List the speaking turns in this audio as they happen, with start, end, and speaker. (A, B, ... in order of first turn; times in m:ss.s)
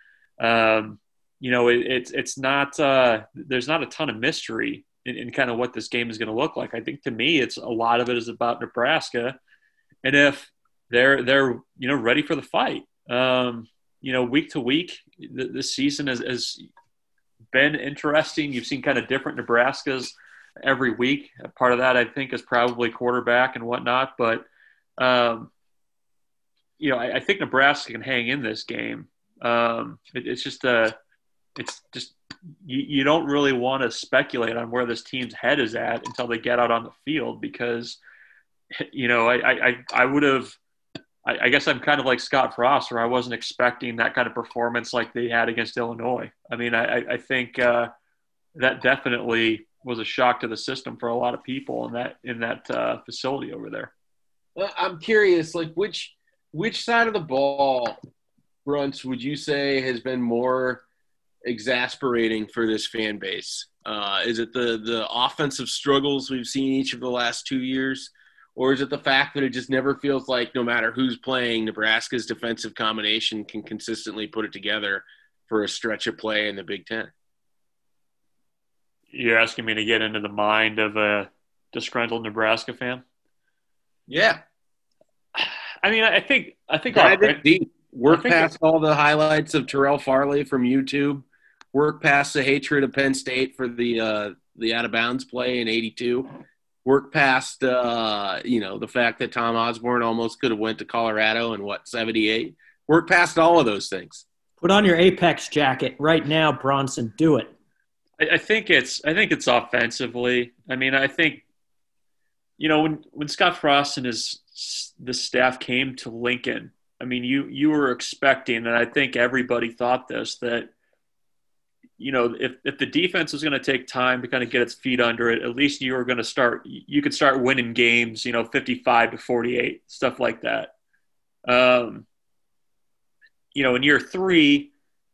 0:00.4-0:09.4 A
0:10.0-0:16.6 A
0:17.5-0:24.5 A
0:25.0-0:25.5 A
0:26.8-0:31.0 A
0:31.6-0:38.0 A
0:38.8-0:40.6 A
0:41.2-0:47.9 A
0:48.6-0:53.9 A
0:54.6-0:58.0 B
0:58.6-1:00.8 B
1:01.4-1:17.1 B
1:19.1-1:23.0 A
1:24.1-1:24.4 B
1:25.4-1:27.4 A
1:26.9-1:36.3 B
1:28.1-1:28.5 A
1:36.8-1:44.2 B
1:44.6-1:47.5 C
1:48.2-1:51.4 A
1:52.6-2:00.7 A
2:02.0-2:10.7 A
2:11.5-2:12.0 A
2:13.5-2:14.7 A